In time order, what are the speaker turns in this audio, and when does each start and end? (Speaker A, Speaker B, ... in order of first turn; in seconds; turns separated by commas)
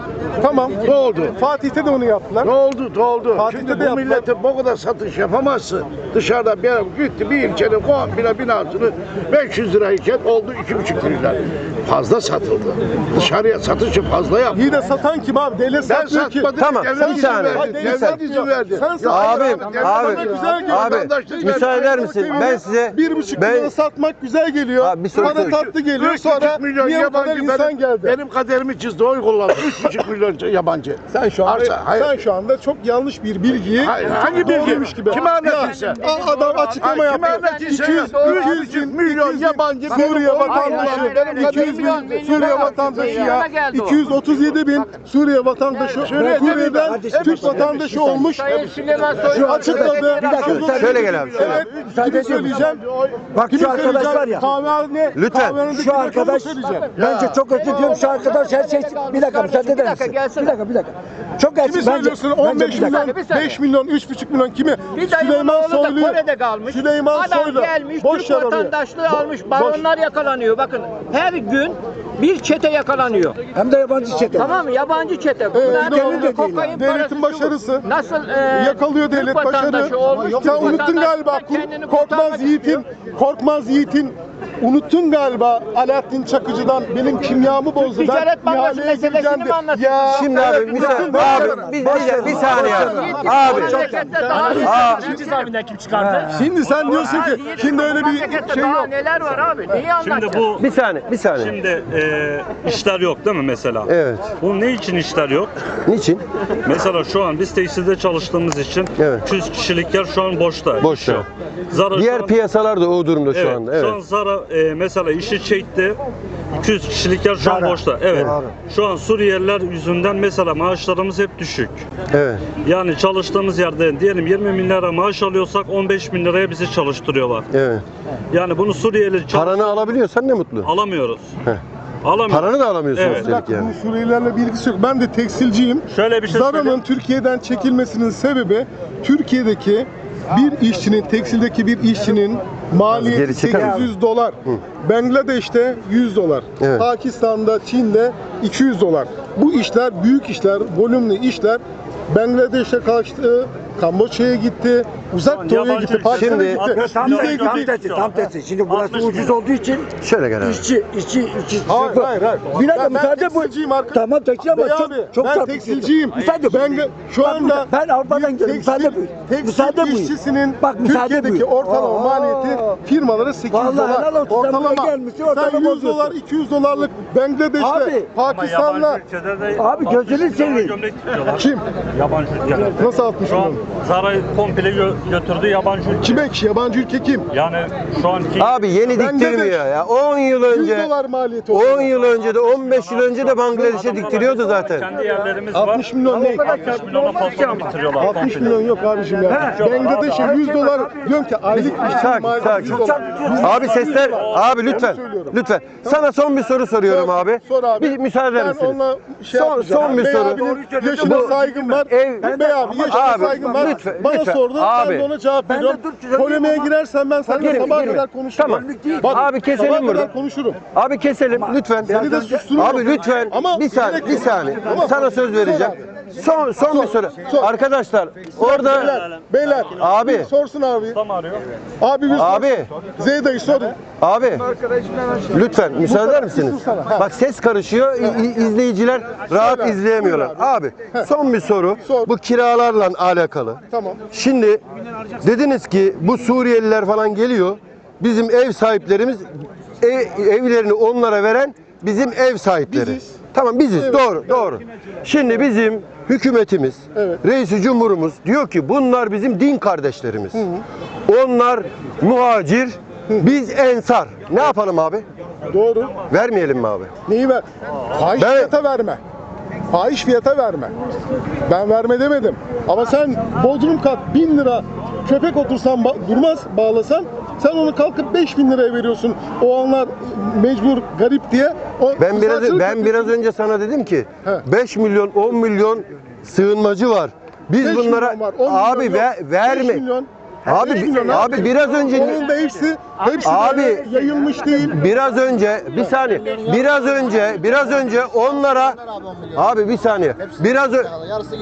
Speaker A: 0.4-2.5, Speaker B: 0.8-1.4, Speaker B: 2.4-14.6, Speaker A: 3.3-4.3, Speaker A: 14.5-28.2, Speaker B: 15.8-22.0, Speaker C: 16.6-18.2, Speaker C: 19.1-23.7, Speaker C: 24.8-25.6, Speaker B: 25.1-32.2, Speaker A: 31.1-48.5, Speaker B: 33.8-36.0, Speaker D: 34.3-38.6, Speaker B: 36.8-43.1, Speaker D: 40.5-44.0, Speaker B: 45.9-49.5, Speaker E: 46.0-48.3, Speaker D: 48.1-51.2, Speaker E: 49.2-52.6, Speaker A: 49.3-52.8, Speaker B: 50.3-54.2, Speaker C: 50.6-51.6, Speaker E: 53.3-54.5, Speaker A: 53.5-56.9, Speaker C: 55.1-55.6, Speaker E: 55.6-63.0, Speaker D: 56.7-60.6, Speaker A: 61.6-69.8, Speaker D: 62.7-63.6, Speaker D: 64.9-73.4, Speaker E: 73.5-74.5, Speaker D: 74.3-82.8, Speaker A: 75.5-77.9, Speaker E: 75.6-76.8, Speaker A: 78.5-95.5, Speaker D: 87.8-90.7, Speaker C: 90.1-93.8, Speaker E: 90.7-94.8, Speaker D: 92.2-96.3, Speaker C: 94.5-95.3, Speaker E: 96.0-96.4, Speaker A: 96.3-98.9, Speaker D: 96.9-100.5, Speaker F: 100.0-100.7, Speaker C: 100.6-101.6, Speaker F: 101.4-105.7, Speaker C: 103.9-104.3, Speaker C: 105.9-106.2, Speaker F: 106.6-112.3, Speaker C: 109.0-109.2, Speaker C: 110.8-111.3, Speaker C: 111.9-114.0, Speaker F: 113.3-116.0, Speaker F: 116.5-121.8, Speaker E: 117.4-117.8, Speaker C: 118.1-118.4, Speaker C: 122.1-122.4, Speaker F: 122.6-127.5, Speaker C: 127.5-127.8, Speaker F: 128.3-130.0, Speaker C: 129.3-130.7, Speaker F: 130.7-131.3, Speaker F: 132.0-133.3, Speaker C: 132.3-133.7, Speaker A: 133.1-157.7, Speaker F: 135.9-136.8, Speaker C: 142.9-143.9, Speaker E: 143.5-143.8, Speaker C: 146.6-146.9, Speaker F: 155.2-159.4, Speaker C: 156.1-156.7, Speaker E: 156.7-159.9, Speaker C: 160.0-160.7, Speaker B: 160.4-161.7, Speaker E: 161.3-172.8, Speaker A: 161.7-179.0, Speaker E: 173.5-176.2, Speaker E: 177.6-178.1, Speaker F: 178.2-186.3, Speaker E: 179.6-180.8, Speaker A: 181.3-181.6, Speaker A: 182.8-183.6, Speaker A: 186.0-187.3, Speaker F: 187.3-188.5, Speaker C: 188.4-190.9, Speaker A: 188.9-189.6, Speaker A: 190.5-192.0, Speaker C: 191.5-194.9, Speaker F: 192.3-198.6, Speaker A: 195.5-197.2, Speaker A: 198.0-206.0, Speaker E: 199.3-199.6, Speaker F: 199.4-200.4, Speaker E: 200.2-204.2, Speaker C: 201.5-215.1, Speaker F: 202.6-204.6, Speaker A: 206.9-220.6, Speaker E: 209.7-213.8, Speaker E: 215.4-216.7, Speaker E: 217.3-220.0, Speaker C: 217.4-220.1, Speaker C: 220.7-222.0, Speaker E: 221.4-222.8, Speaker A: 221.9-225.9, Speaker C: 222.6-228.9, Speaker E: 223.9-224.9, Speaker A: 226.7-227.5, Speaker A: 228.4-231.0, Speaker F: 228.8-229.2, Speaker C: 229.7-230.3, Speaker F: 230.9-231.4, Speaker A: 231.8-233.8, Speaker C: 232.1-232.7, Speaker C: 234.0-234.5, Speaker C: 235.3-244.6, Speaker A: 235.8-237.1, Speaker A: 239.3-241.1, Speaker A: 241.8-242.1, Speaker A: 243.7-244.0, Speaker C: 245.2-260.5, Speaker A: 252.7-253.2, Speaker A: 253.8-254.1, Speaker A: 256.9-257.2, Speaker A: 260.4-260.6, Speaker C: 261.1-265.1, Speaker A: 265.5-266.0, Speaker C: 266.1-266.9, Speaker A: 267.1-269.0, Speaker C: 268.2-268.5, Speaker A: 269.7-270.7, Speaker A: 271.5-283.1, Speaker C: 282.0-289.8, Speaker A: 287.6-294.8, Speaker C: 290.5-292.3, Speaker D: 293.0-294.5, Speaker C: 293.2-293.9, Speaker C: 294.6-301.1